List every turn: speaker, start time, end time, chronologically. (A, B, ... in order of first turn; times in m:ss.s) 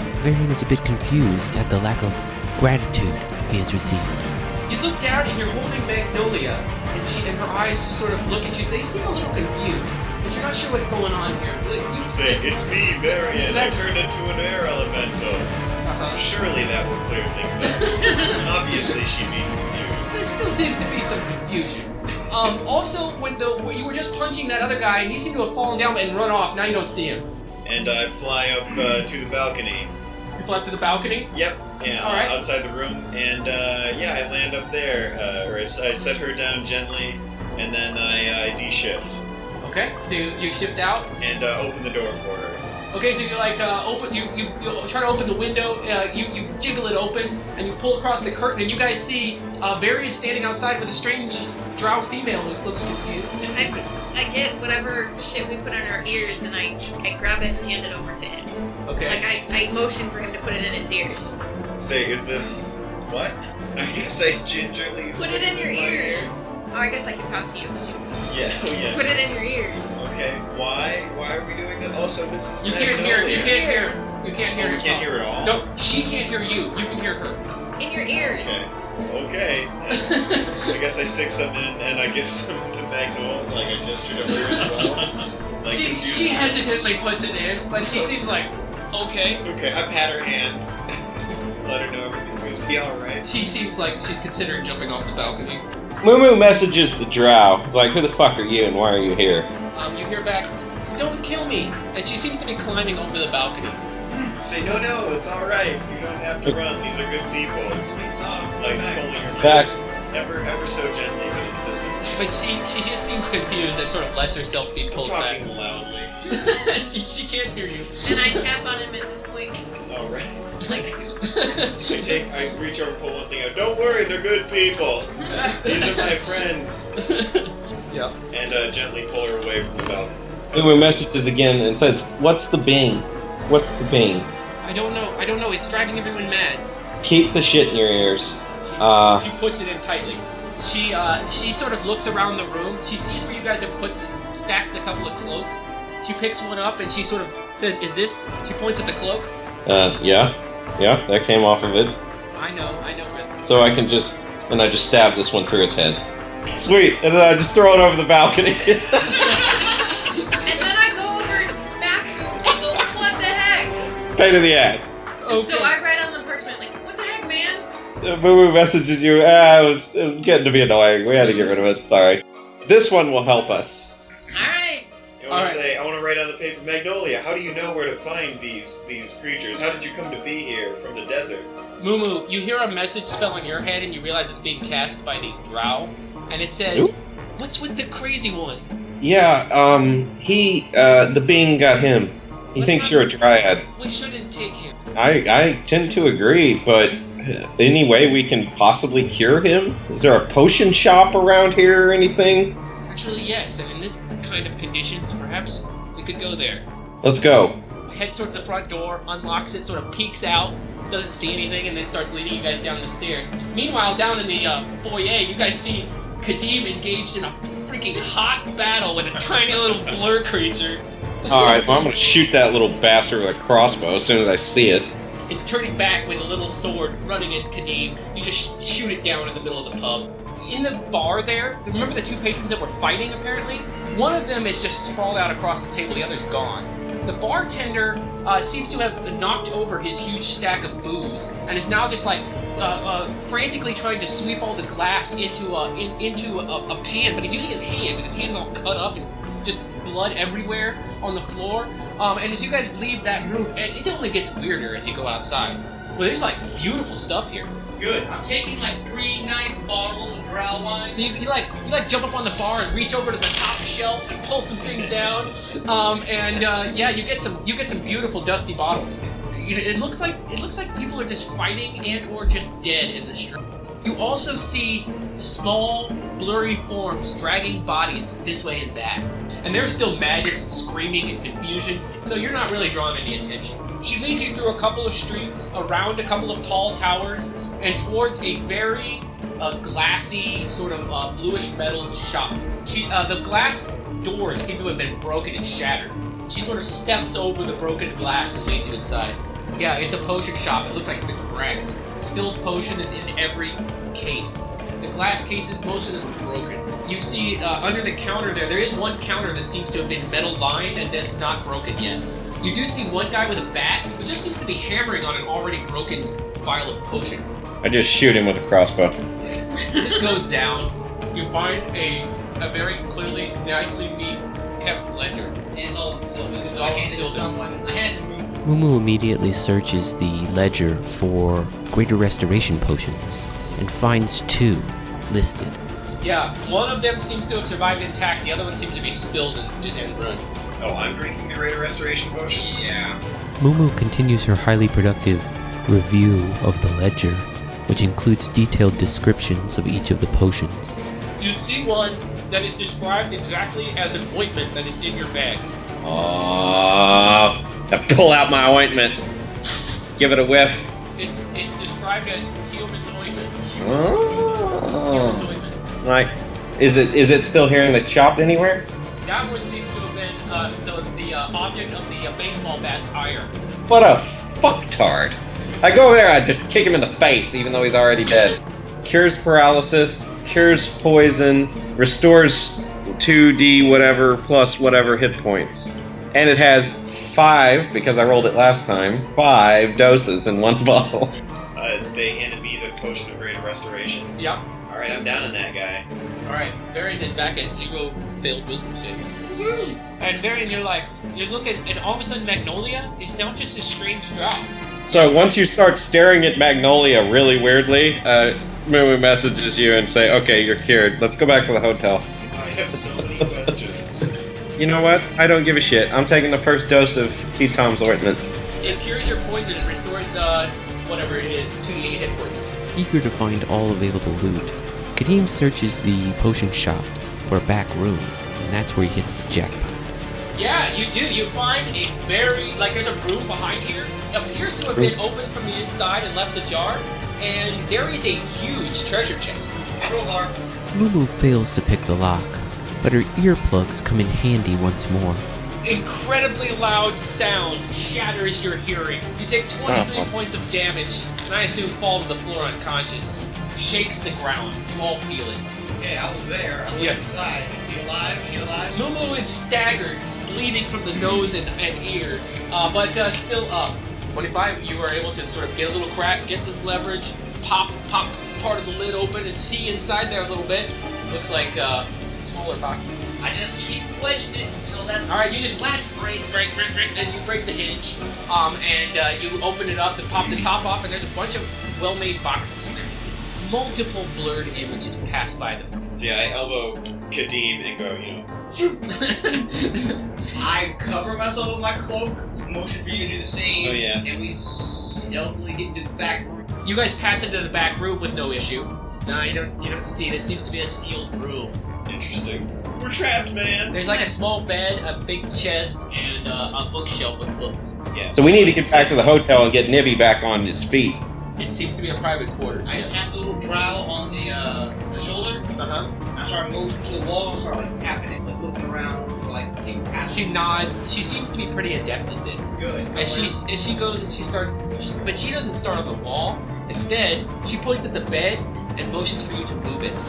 0:00.2-0:04.4 A
0:04.7-0:12.8 B
0:12.0-0:15.5 C
0:13.3-0:13.8 B
0:15.8-0:16.2 B
0:16.1-0:20.3 C
0:17.8-0:18.4 B
0:20.1-0:27.2 B
0:27.6-0:29.9 C
0:30.4-0:31.3 B
0:31.3-0:39.2 C
0:32.0-0:32.3 B
0:39.6-0:41.1 B
0:41.2-0:42.6 C
0:42.9-0:53.4 B
0:53.4-0:53.8 C
0:53.5-0:58.5 D
0:58.9-0:59.2 B
0:59.1-1:01.4 D
1:01.8-1:06.3 C
1:05.1-1:09.9 D
1:08.2-1:09.1 C
1:09.9-1:13.6 C
1:12.6-1:17.4 B
1:13.2-1:14.2 D
1:14.6-1:15.6 C
1:17.8-1:18.7 D
1:18.2-1:26.6 C
1:19.9-1:20.7 B
1:24.3-1:25.0 B
1:25.6-1:29.4 B
1:27.8-1:28.1 C
1:29.4-1:33.2 C
1:33.2-1:35.6 B
1:36.0-1:39.5 E
1:39.7-1:43.8 B
1:44.0-1:44.4 F
1:44.4-1:47.9 C
1:47.7-1:49.8 F
1:48.6-1:52.2 C
1:49.4-1:49.7 E
1:52.2-1:55.4 B
1:54.9-1:56.1 C
1:56.3-1:58.4 B
1:58.0-1:59.6 D
1:59.9-2:00.4 C
2:00.6-2:01.8 B
2:00.7-2:01.5 D
2:01.8-2:06.9 C
2:05.3-2:06.1 F
2:07.0-2:08.1 B
2:08.3-2:11.0 C
2:10.5-2:14.3 E
2:14.6-2:16.6 B
2:17.0-2:19.2 E
2:18.6-2:29.3 B
2:29.6-2:32.0 E
2:32.4-2:33.4 B
2:33.4-2:36.0 E
2:36.5-2:39.4 E
2:39.1-2:40.8 B
2:40.4-2:43.9 D
2:44.2-2:44.9 E
2:45.2-2:45.7 B
2:45.3-2:47.7 D
2:48.0-2:54.0 E
2:54.3-2:54.9 D
2:55.2-3:01.5 C
2:55.3-2:55.6 B
3:01.8-3:08.6 B
3:09.0-3:13.6 E
3:12.6-3:13.0 B
3:13.7-3:14.8 B
3:14.9-3:22.6 E
3:22.8-3:26.6 B
3:27.0-3:27.6 E
3:27.9-3:41.7 B
3:41.3-3:44.9 E
3:45.3-4:17.5 B
4:17.8-4:21.0 F
4:20.9-5:17.3 B
5:17.6-5:19.0 E
5:19.7-5:25.4 B
5:25.5-5:28.3 F
5:26.4-5:27.3 B
5:28.4-5:35.6 A
5:36.0-5:40.2 B
5:40.6-5:42.4 C
5:42.3-5:43.0 B
5:43.4-5:50.8 A
5:51.2-5:55.5 B
5:55.8-5:59.0 E
6:00.0-6:00.7 E
6:00.9-6:05.6 B
6:03.6-6:05.3 E
6:05.8-6:08.6 E
6:09.0-6:13.3 B
6:13.7-6:31.1 E
6:31.5-6:34.1 C
6:34.2-6:34.4 B
6:34.7-6:35.8 C
6:36.2-6:39.2 B
6:40.0-6:44.5 B
6:44.9-6:52.1 E
6:52.3-6:54.1 C
6:54.6-6:58.2 E
6:58.6-7:02.5 B
7:02.7-7:09.8 A
7:10.3-7:19.5 B
7:19.8-7:20.3 F
7:20.7-7:25.2 A
7:25.6-7:35.4 B
7:29.6-7:30.1 E
7:35.7-7:38.8 F
7:36.7-7:37.0 B
7:38.7-7:53.0 B
7:53.2-7:56.4 F
7:55.1-7:55.7 B
7:56.3-8:05.8 B
8:00.2-8:00.4 C
8:05.9-8:08.8 C
8:08.9-8:10.0 B
8:10.3-8:16.4 F
8:13.6-8:14.0 C
8:16.6-8:21.6 B
8:21.9-8:23.8 C
8:23.7-8:27.7 B
8:23.8-8:24.1 D
8:27.9-8:29.1 C
8:28.1-8:31.0 E
8:31.4-8:33.0 B
8:32.6-8:35.5 F
8:35.6-8:35.9 B
8:36.1-8:40.8 F
8:40.1-8:50.0 B
8:42.6-8:43.4 F